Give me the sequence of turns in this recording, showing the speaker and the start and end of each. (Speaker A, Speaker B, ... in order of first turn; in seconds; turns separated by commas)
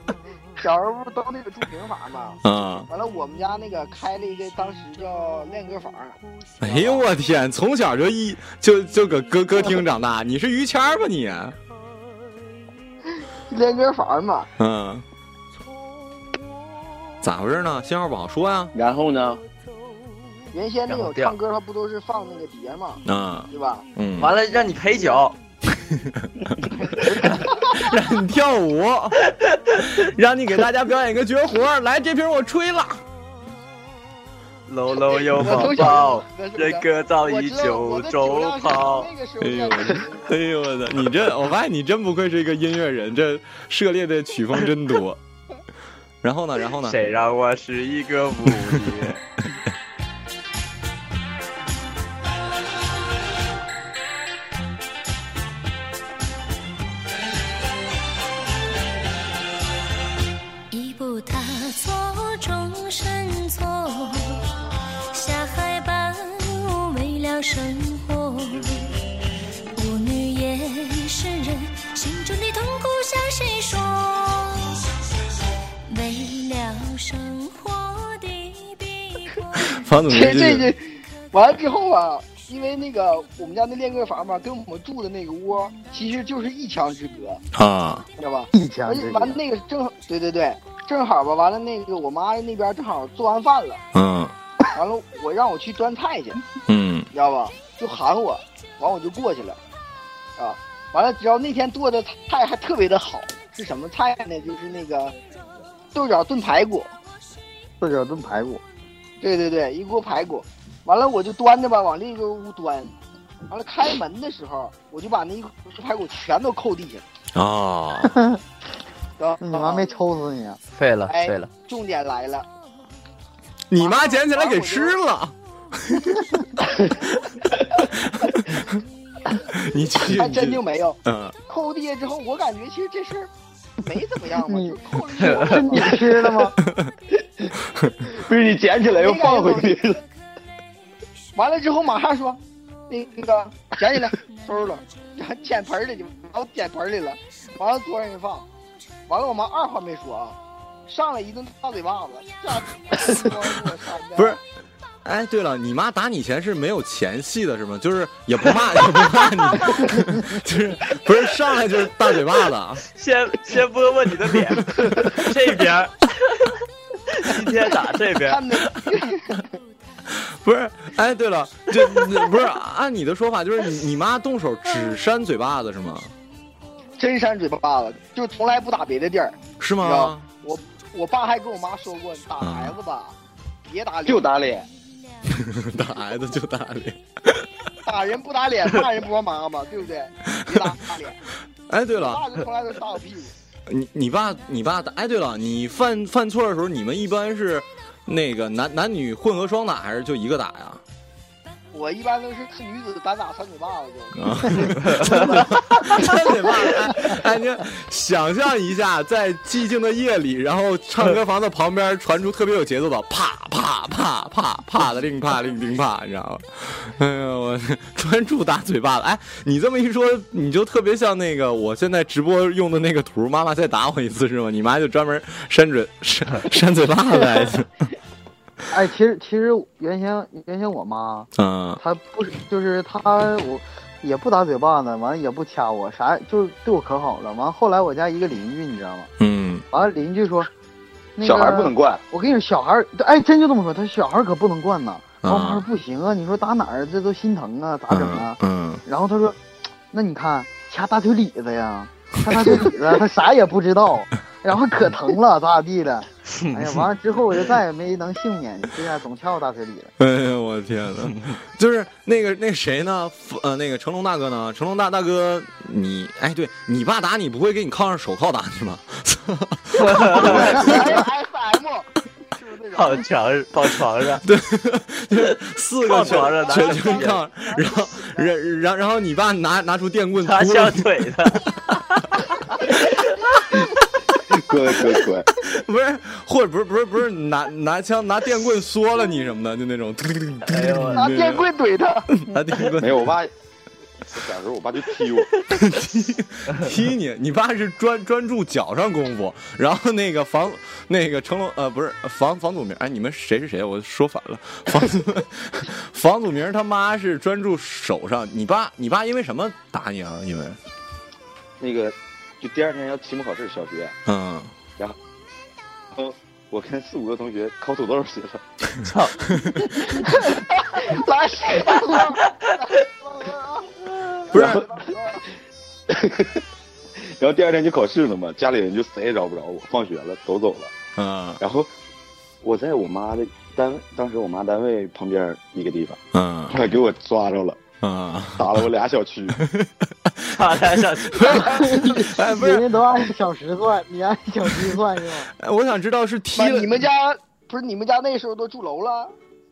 Speaker A: 0.6-7.0, Speaker B: 2.4-2.9, Speaker B: 6.6-11.6, Speaker A: 13.5-14.5, Speaker B: 14.6-15.0, Speaker B: 17.2-18.7, Speaker C: 18.7-19.4, Speaker A: 20.5-23.8, Speaker D: 20.9-21.4, Speaker B: 23.1-24.4, Speaker D: 24.2-25.4, Speaker B: 26.0-26.3, Speaker A: 27.1-27.6, Speaker B: 27.6-29.2, Speaker B: 30.0-33.0, Speaker D: 34.7-39.1, Speaker A: 35.2-40.3, Speaker B: 39.4-45.2, Speaker B: 46.2-47.2, Speaker D: 46.8-49.2, Speaker E: 60.7-64.4, Speaker E: 65.1-68.9, Speaker E: 69.8-74.8, Speaker E: 75.9-79.4, Speaker B: 79.6-80.7, Speaker A: 80.1-87.4, Speaker B: 87.5-88.1, Speaker A: 88.2-93.8, Speaker F: 88.5-89.4, Speaker B: 93.9-94.3, Speaker A: 94.7-96.4, Speaker B: 96.7-97.1, Speaker A: 97.1-99.6, Speaker A: 100.4-105.2, Speaker A: 105.9-106.9, Speaker F: 107.8-108.6, Speaker A: 109.2-112.9, Speaker A: 113.5-117.1, Speaker B: 117.3-118.2, Speaker F: 118.1-118.4, Speaker A: 119.2-119.9, Speaker F: 119.4-120.6, Speaker D: 120.8-121.5, Speaker A: 121.1-122.5, Speaker B: 123.7-126.1, Speaker A: 123.8-125.0, Speaker B: 128.0-128.8, Speaker B: 129.5-131.3, Speaker A: 130.1-133.3, Speaker A: 133.8-136.0, Speaker F: 134.5-136.6, Speaker D: 135.2-135.6, Speaker B: 136.7-136.9, Speaker C: 138.1-140.0, Speaker A: 138.8-139.8, Speaker A: 141.3-148.5, Speaker A: 149.1-150.4, Speaker A: 150.9-154.4, Speaker B: 155.1-162.8, Speaker D: 162.9-166.5, Speaker B: 164.4-165.3, Speaker D: 167.1-168.4, Speaker A: 168.1-169.5, Speaker B: 170.1-176.1, Speaker A: 177.0-184.3, Speaker B: 179.6-180.3, Speaker B: 182.4-182.8, Speaker C: 184.1-184.7, Speaker B: 185.3-187.5, Speaker A: 187.8-191.2, Speaker B: 191.7-192.2, Speaker A: 191.9-193.3, Speaker B: 193.7-200.8, Speaker A: 201.7-206.5, Speaker B: 204.2-227.7, Speaker D: 204.8-205.4, Speaker F: 228.7-231.3, Speaker B: 231.4-231.8, Speaker F: 231.8-239.1, Speaker B: 239.2-239.7, Speaker F: 239.7-240.5, Speaker F: 241.2-249.4, Speaker C: 241.2-242.0, Speaker B: 245.2-245.7, Speaker B: 247.9-248.8, Speaker F: 249.9-259.9, Speaker D: 256.4-256.8, Speaker B: 260.0-271.0, Speaker D: 269.8-270.5, Speaker A: 269.9-273.1, Speaker D: 272.7-274.2, Speaker B: 274.2-280.9, Speaker D: 275.9-277.2, Speaker A: 275.9-278.3, Speaker D: 280.2-281.4, Speaker C: 284.3-285.3, Speaker B: 285.4-291.5, Speaker D: 290.5-291.0, Speaker A: 290.9-292.2, Speaker B: 292.2-293.1, Speaker C: 292.8-293.3, Speaker C: 294.1-295.3, Speaker B: 295.5-310.6, Speaker C: 311.6-313.9, Speaker B: 314.1-314.5, Speaker C: 315.9-318.4, Speaker D: 318.8-319.2, Speaker A: 319.9-325.3, Speaker B: 324.3-324.6, Speaker C: 324.3-324.7, Speaker C: 325.9-326.4, Speaker C: 326.9-330.7, Speaker B: 331.0-331.4, Speaker C: 331.4-331.7, Speaker C: 332.4-336.0, Speaker B: 336.1-336.6, Speaker C: 336.5-337.6, Speaker B: 337.8-338.6, Speaker C: 338.4-339.4, Speaker B: 339.4-342.7, Speaker D: 340.3-341.7, Speaker A: 341.3-342.0, Speaker F: 341.6-345.3, Speaker B: 345.4-346.9, Speaker A: 346.4-349.1